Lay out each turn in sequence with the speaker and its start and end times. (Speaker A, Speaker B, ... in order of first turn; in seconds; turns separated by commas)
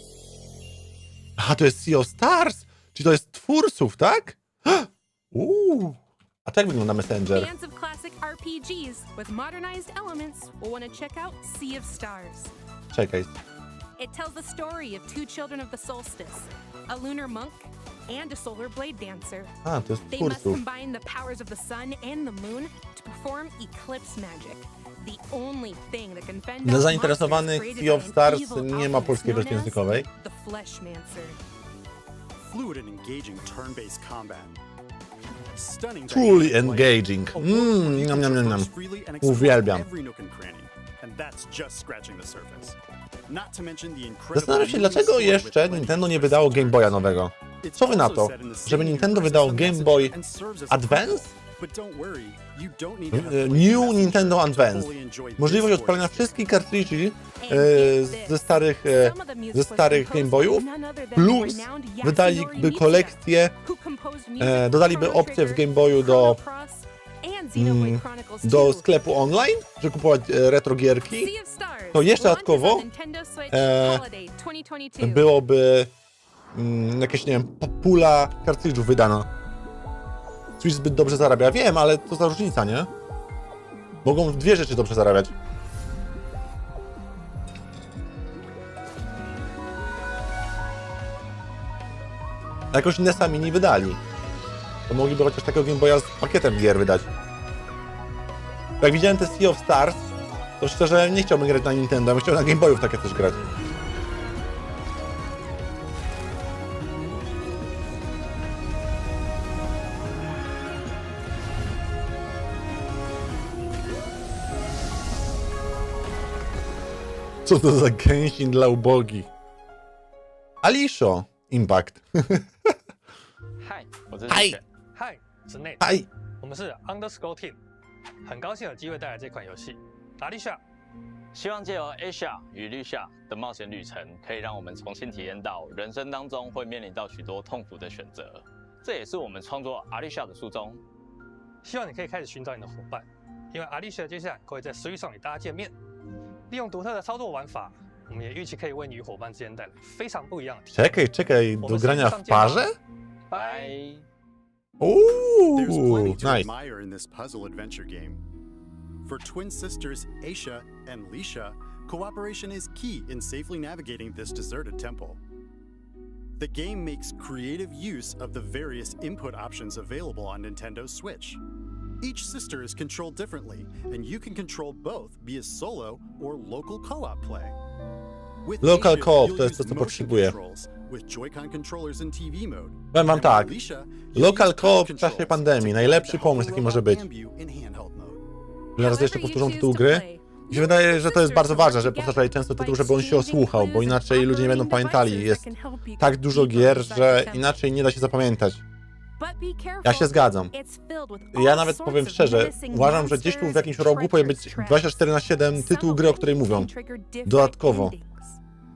Speaker A: 1.4-7.5, Speaker B: 7.3-12.5, Speaker A: 12.9-13.3, Speaker B: 14.0-19.6, Speaker A: 19.6-20.6, Speaker B: 20.1-31.4, Speaker A: 26.6-30.1, Speaker C: 32.4-34.6, Speaker C: 35.5-56.5, Speaker A: 36.1-38.7, Speaker A: 39.2-39.9, Speaker A: 44.3-50.1, Speaker A: 50.7-51.3, Speaker A: 53.1-63.5, Speaker B: 57.4-68.9, Speaker A: 64.4-66.4, Speaker A: 67.5-71.3, Speaker B: 71.1-75.3, Speaker A: 71.9-72.9, Speaker A: 73.5-74.0, Speaker A: 75.0-75.9, Speaker A: 76.5-79.3, Speaker A: 80.6-82.9, Speaker A: 84.0-85.3, Speaker A: 92.7-94.0, Speaker A: 94.9-97.1, Speaker A: 98.8-100.1, Speaker A: 100.6-103.4, Speaker A: 117.5-119.3, Speaker A: 120.6-122.4, Speaker D: 123.6-124.6, Speaker A: 124.3-124.6, Speaker E: 124.9-125.8, Speaker A: 125.8-126.1, Speaker E: 126.4-127.6, Speaker E: 128.2-130.6, Speaker D: 131.3-140.8, Speaker E: 141.6-145.8, Speaker E: 146.5-151.0, Speaker A: 150.7-152.8, Speaker E: 151.6-152.7, Speaker E: 153.3-153.8, Speaker D: 153.3-154.0, Speaker A: 154.8-156.5, Speaker C: 155.6-158.2, Speaker C: 159.1-165.2, Speaker C: 166.4-171.4, Speaker C: 172.0-177.6, Speaker C: 178.4-188.2, Speaker A: 178.6-180.4, Speaker A: 182.9-183.5, Speaker A: 184.1-187.1, Speaker A: 188.8-195.4, Speaker B: 188.8-197.6, Speaker A: 196.0-198.6, Speaker B: 199.2-208.4, Speaker A: 199.8-200.5, Speaker A: 201.3-206.7, Speaker A: 207.2-207.9